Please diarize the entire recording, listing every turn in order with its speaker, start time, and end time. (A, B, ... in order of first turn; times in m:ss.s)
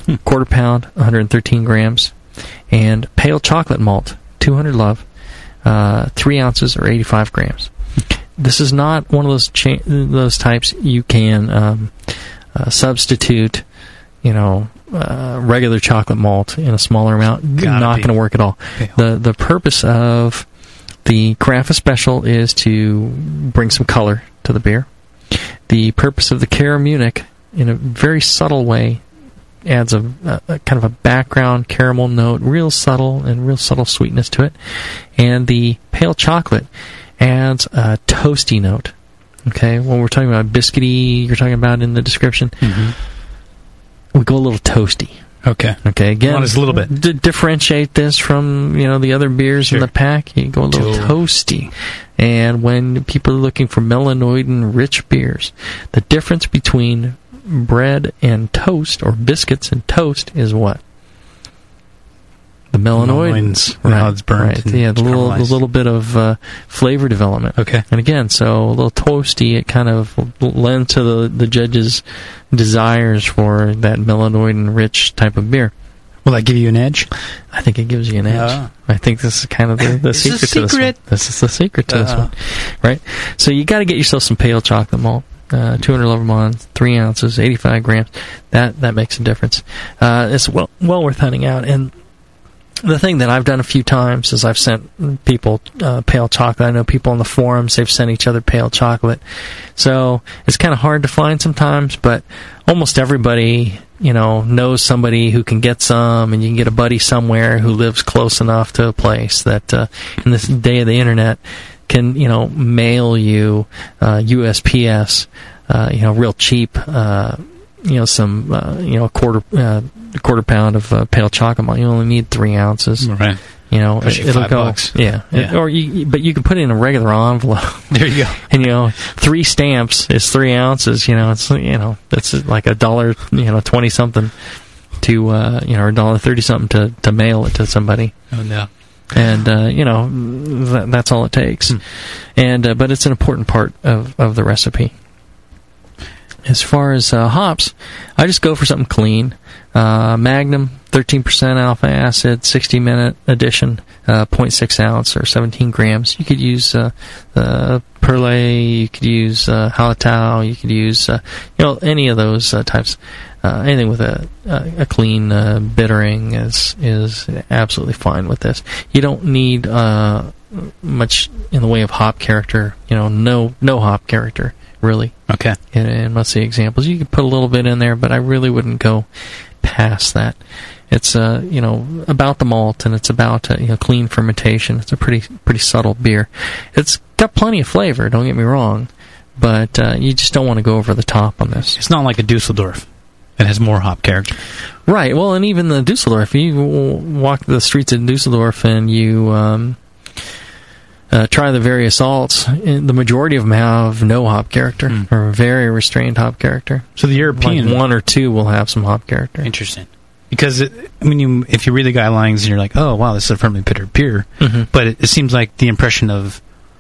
0:00.2-0:02.1 A
0:02.7-0:05.0 A
0:05.6-0:07.7 A
0:08.4-0:13.6 A
0:14.2-0:20.4 A
0:17.6-0:18.1 B
0:21.0-0:29.0 A
0:29.6-0:34.5 A
0:35.1-0:36.7 A
0:37.2-0:38.9 A
0:39.4-0:42.6 A
0:42.6-0:42.9 B
0:44.1-0:45.2 A
0:45.4-0:46.9 B
0:45.8-1:00.8 A
0:50.7-0:51.1 B
1:02.7-1:15.7 A
1:02.9-1:05.6 B
1:07.6-1:07.8 B
1:16.2-1:17.1 B
1:17.5-1:31.9 A
1:18.3-1:18.7 B
1:19.8-1:21.0 B
1:21.9-1:22.3 B
1:32.8-1:39.2 A
1:39.8-2:03.1 A
2:03.0-2:03.4 B
2:03.7-2:14.3 A
2:04.0-2:05.6 B
2:07.9-2:08.4 B
2:15.0-2:18.1 A
2:18.3-2:18.7 B
2:19.1-2:21.8 A
2:22.3-2:24.9 A
2:26.4-2:55.1 A
2:55.3-2:55.6 B
2:55.7-2:59.1 A
2:59.6-3:00.4 A
3:00.9-3:11.8 A
3:11.7-3:12.8 B
3:13.4-3:14.4 B
3:14.8-3:19.8 A
3:21.1-3:29.5 A
3:27.0-3:27.8 B
3:29.4-3:36.4 B
3:34.4-3:34.7 A